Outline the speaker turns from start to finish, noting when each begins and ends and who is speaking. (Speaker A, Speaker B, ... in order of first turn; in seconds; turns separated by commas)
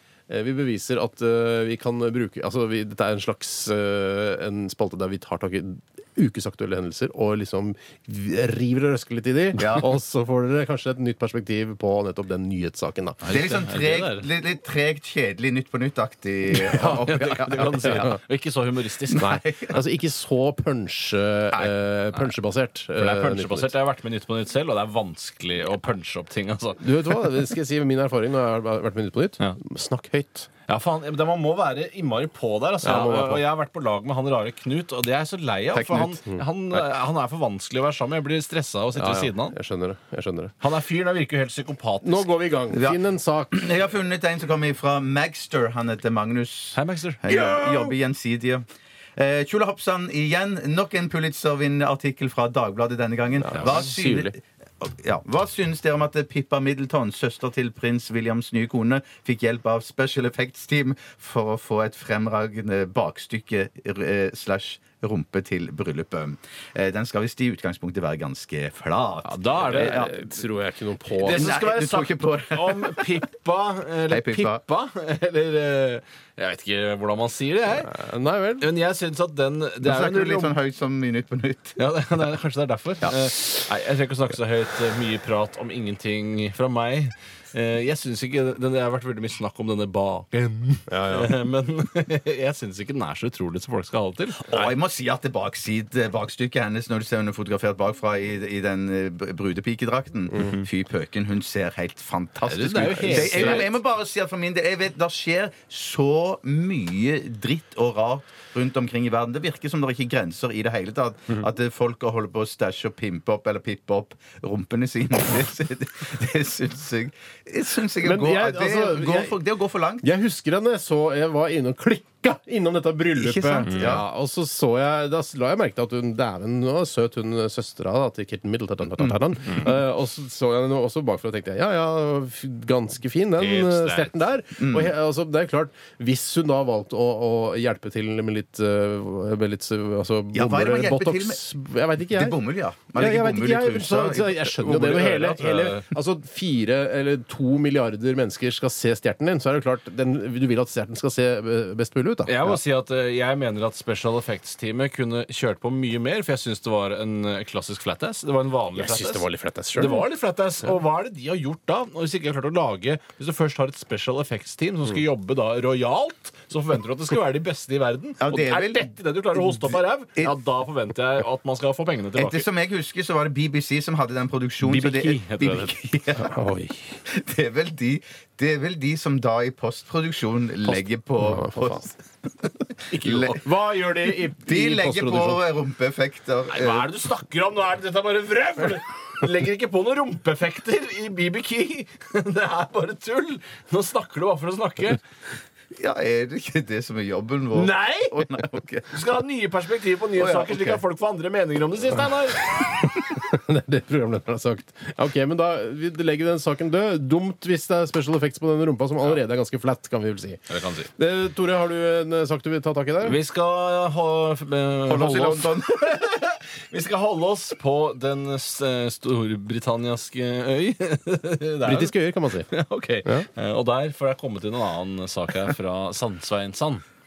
Speaker A: 0.3-13.2, Speaker B: 9.5-9.9, Speaker C: 13.2-14.3, Speaker B: 13.2-18.1, Speaker A: 16.5-17.0, Speaker C: 16.8-19.3, Speaker A: 17.7-18.2, Speaker B: 19.1-19.8, Speaker A: 19.2-23.7, Speaker C: 21.5-22.3, Speaker C: 22.9-27.5, Speaker A: 26.8-30.5, Speaker C: 30.7-39.5, Speaker A: 32.8-33.4, Speaker B: 35.7-36.1, Speaker A: 38.9-40.5, Speaker C: 40.6-42.3, Speaker A: 42.0-43.6, Speaker B: 43.5-48.6, Speaker C: 46.7-47.9, Speaker B: 49.1-70.1, Speaker A: 53.4-54.3, Speaker C: 69.2-70.3, Speaker A: 69.6-71.4, Speaker C: 71.0-78.0, Speaker B: 71.2-73.2, Speaker B: 74.1-74.6, Speaker A: 77.7-78.7, Speaker C: 78.6-80.5, Speaker B: 79.8-81.8, Speaker C: 81.8-94.4, Speaker A: 90.9-91.3, Speaker B: 94.4-120.1, Speaker C: 100.4-100.6, Speaker C: 102.4-103.8, Speaker A: 118.0-119.4, Speaker A: 120.0-142.4, Speaker B: 123.2-124.0, Speaker C: 123.7-124.0, Speaker B: 129.0-129.6, Speaker C: 133.4-134.3, Speaker B: 134.6-134.9, Speaker B: 140.3-141.4, Speaker B: 142.0-145.0, Speaker A: 142.9-152.6, Speaker C: 144.6-145.9, Speaker C: 152.2-172.5, Speaker A: 158.7-160.0, Speaker B: 168.2-170.3, Speaker B: 172.1-176.4, Speaker C: 174.6-175.8, Speaker A: 176.2-177.0, Speaker B: 177.0-182.0, Speaker A: 180.7-181.9, Speaker A: 182.9-185.4, Speaker C: 182.9-183.9, Speaker B: 182.9-183.5, Speaker B: 184.2-186.9, Speaker C: 186.5-195.0, Speaker B: 195.7-198.9, Speaker C: 197.5-198.3, Speaker C: 198.9-202.9, Speaker B: 200.2-200.8, Speaker A: 203.1-210.4, Speaker C: 210.5-210.9, Speaker A: 210.9-213.2, Speaker C: 213.0-226.8, Speaker B: 214.8-215.9, Speaker A: 221.6-222.5